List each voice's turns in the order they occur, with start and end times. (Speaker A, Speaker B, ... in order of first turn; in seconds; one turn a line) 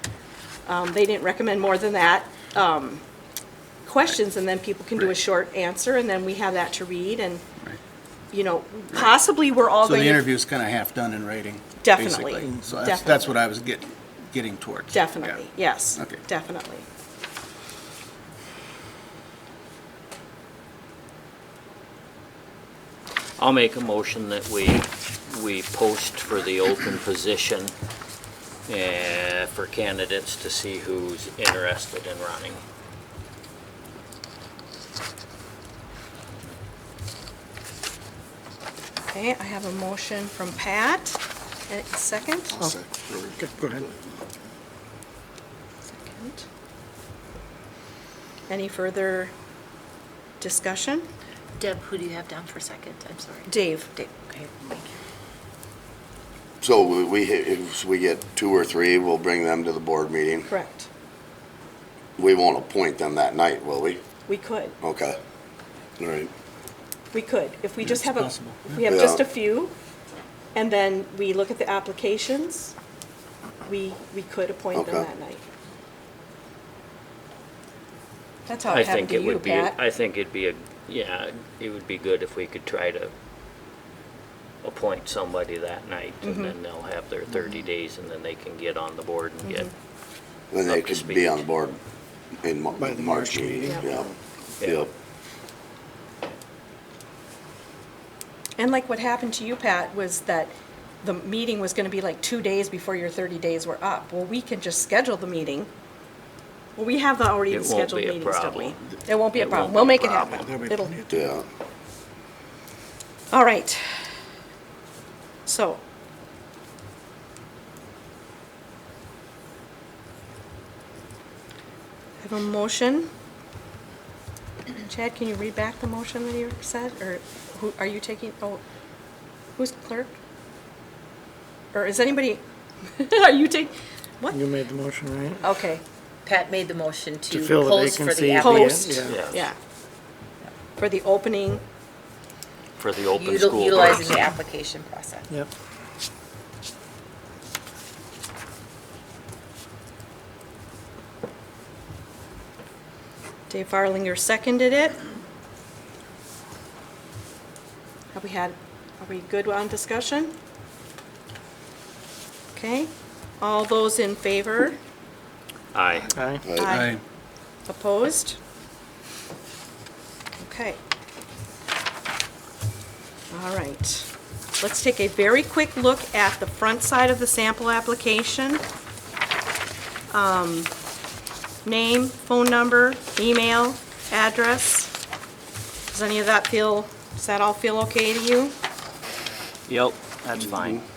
Speaker A: 0.7-3.0
Speaker A: 3.9-7.4
Speaker A: 8.3-10.2
Speaker B: 9.8-15.4
Speaker A: 11.8-13.3
Speaker A: 14.9-16.9
Speaker C: 23.4-27.7
Speaker C: 28.7-32.6
Speaker A: 39.1-42.7
Speaker D: 42.9-43.4
Speaker E: 43.4-43.8
Speaker A: 45.9-46.5
Speaker A: 48.5-49.3
Speaker A: 50.4-51.1
Speaker F: 51.6-54.9
Speaker A: 53.5-54.0
Speaker D: 56.6-60.5
Speaker A: 60.5-60.9
Speaker D: 62.2-64.0
Speaker A: 64.3-64.8
Speaker D: 64.8-65.2
Speaker D: 66.0-66.3
Speaker A: 67.1-69.7
Speaker B: 67.8-68.8
Speaker D: 68.9-69.3
Speaker A: 70.5-72.8
Speaker A: 73.7-75.4
Speaker D: 74.8-75.1
Speaker A: 78.5-79.8
Speaker C: 78.7-83.1
Speaker C: 84.6-89.7
Speaker A: 86.2-86.5
Speaker D: 90.5-91.8
Speaker C: 90.7-91.5
Speaker D: 92.4-94.9
Speaker E: 92.8-93.8
Speaker C: 94.6-94.9
Speaker A: 98.6-105.7
Speaker A: 106.8-111.0
Speaker C: 107.5-110.5
Speaker D: 111.1-111.5
Speaker A: 113.3-113.9
Speaker A: 115.5-115.8
Speaker A: 122.2-123.1
Speaker A: 124.8-128.6
Speaker A: 129.6-130.2
Speaker A: 131.7-134.5
Speaker E: 134.3-135.4
Speaker A: 135.4-135.8
Speaker F: 136.2-139.1
Speaker E: 137.3-139.2
Speaker A: 138.4-139.6
Speaker C: 139.1-139.4
Speaker A: 140.8-141.6
Speaker C: 142.8-144.4
Speaker F: 143.2-145.3
Speaker A: 153.5-155.0
Speaker A: 158.1-160.3
Speaker A: 162.5-164.8
Speaker C: 165.7-166.2
Speaker E: 166.2-166.4
Speaker D: 166.4-166.8
Speaker A: 166.5-167.0
Speaker B: 166.7-167.0
Speaker A: 167.7-168.4
Speaker A: 170.4-170.8
Speaker A: 173.3-178.6
Speaker A: 180.1-180.7
Speaker A: 181.7-184.9
Speaker A: 185.9-188.6
Speaker C: 189.7-190.8